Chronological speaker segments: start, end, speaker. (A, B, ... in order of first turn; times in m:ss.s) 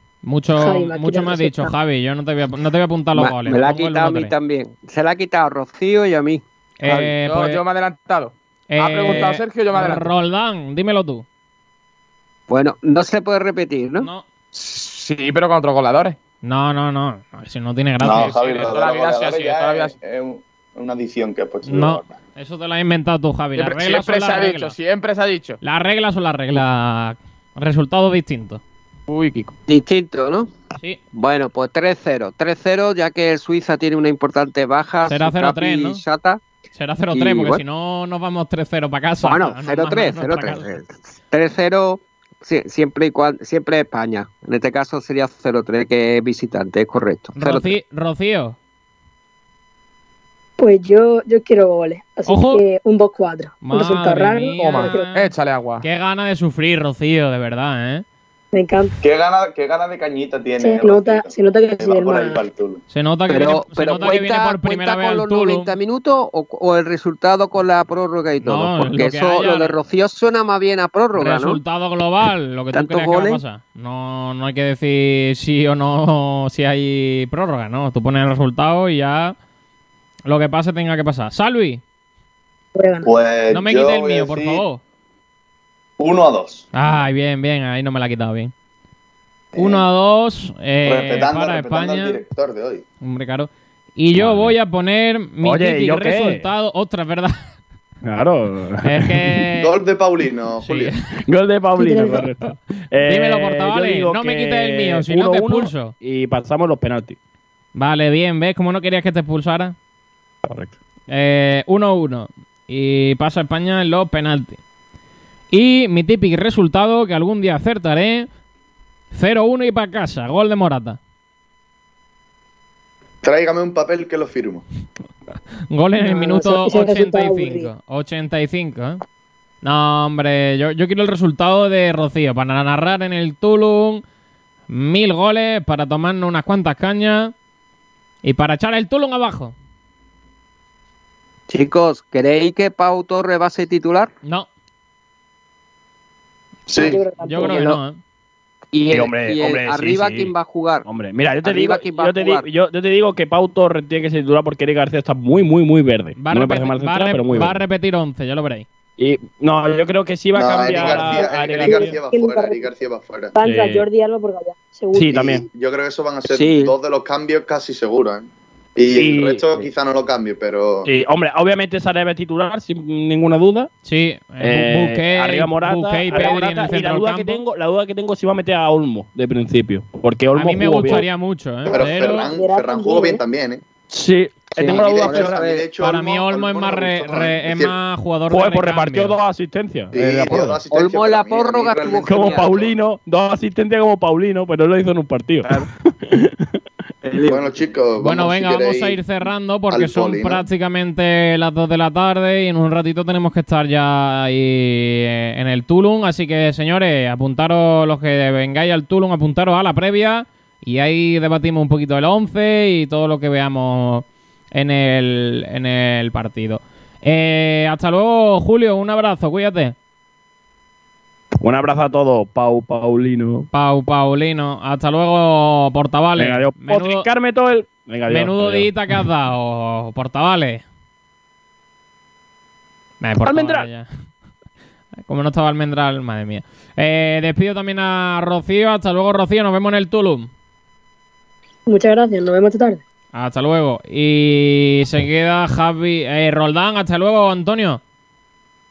0:00.2-0:04.3 A
0:00.6-0:01.7 B
0:03.2-0:07.1 C
0:06.8-0:07.6 A
0:07.2-0:10.1 D
0:08.7-0:11.2 A
0:12.5-0:14.1 C
0:14.5-0:16.2 D
0:16.4-0:18.5 A
0:18.0-0:22.1 E
0:18.2-0:19.9 D
0:21.7-0:24.8 A
0:23.6-0:25.6 D
0:25.6-0:28.6 A
0:29.1-0:29.5 D
0:29.7-0:30.5 C
0:31.1-0:36.4 C
0:35.1-0:36.0 A
0:36.7-0:40.7 A
0:37.1-0:37.6 C
0:39.2-0:47.8 C
0:47.4-0:48.6 A
0:50.6-0:55.1 B
0:52.3-0:52.6 A
0:53.6-0:55.3 A
0:54.6-0:55.8 D
0:55.8-0:58.0 A
0:58.5-0:59.0 B
0:59.0-1:02.8 E
1:00.6-1:02.4 B
1:02.9-1:05.7 A
1:03.3-1:11.6 C
1:08.4-1:09.8 A
1:11.1-1:19.4 A
1:12.7-1:13.4 C
1:20.3-1:21.8 A
1:22.8-1:23.2 B
1:23.0-1:24.6 E
1:23.5-1:24.8 A
1:26.0-1:26.7 E
1:26.7-1:28.5 A
1:29.5-1:29.8 E
1:29.6-1:32.2 A
1:30.8-1:32.8 E
1:33.0-1:37.5 A
1:34.1-1:34.6 F
1:35.4-1:36.4 F
1:38.0-1:39.2 F
1:38.8-1:39.7 A
1:39.6-1:40.9 E
1:40.6-1:41.2 A
1:41.3-1:47.2 F
1:41.8-1:42.3 B
1:43.0-1:45.9 A
1:47.8-1:49.8 A
1:50.4-1:50.7 F
1:51.1-1:54.6 A
1:55.5-1:58.3 A
1:59.1-2:01.0 A
2:03.2-2:04.6 E
2:05.7-2:09.0 A
2:06.0-2:07.7 B
2:09.6-2:14.0 A
2:14.7-2:17.3 A
2:18.2-2:19.5 A
2:21.5-2:24.1 C
2:26.7-2:27.0 E
2:26.8-2:27.8 B
2:27.2-2:28.0 A
2:27.5-2:27.8 C
2:28.7-2:30.9 C
2:28.9-2:30.3 F
2:30.8-2:37.6 F
2:31.4-2:32.5 C
2:36.2-2:38.7 A
2:39.0-2:42.0 F
2:40.3-2:43.3 E
2:41.2-2:42.7 B
2:43.4-2:45.2 B
2:43.4-2:43.8 F
2:44.9-2:45.5 F
2:45.1-2:50.9 E
2:46.3-2:46.7 C
2:49.0-2:49.7 F
2:50.9-2:53.7 F
2:53.8-2:57.4 A
2:54.4-3:01.1 F
3:00.4-3:02.3 A
3:01.7-3:03.6 E
3:02.2-3:03.2 B
3:03.9-3:05.4 F
3:04.6-3:05.7 C
3:04.6-3:07.8 E
3:05.8-3:09.1 A
3:08.3-3:10.6 F
3:09.9-3:12.7 E
3:10.7-3:12.6 C
3:12.0-3:16.5 F
3:17.1-3:17.4 F
3:17.2-3:19.0 E
3:18.0-3:39.8 A
3:19.7-3:20.4 E
3:41.4-3:43.5 F
3:43.5-3:47.1 A
3:46.2-3:48.7 F
3:48.1-3:50.6 A
3:53.0-3:53.9 A
3:53.3-3:53.7 F
3:55.1-4:00.3 A
4:01.7-4:02.8 B
4:03.1-4:07.8 A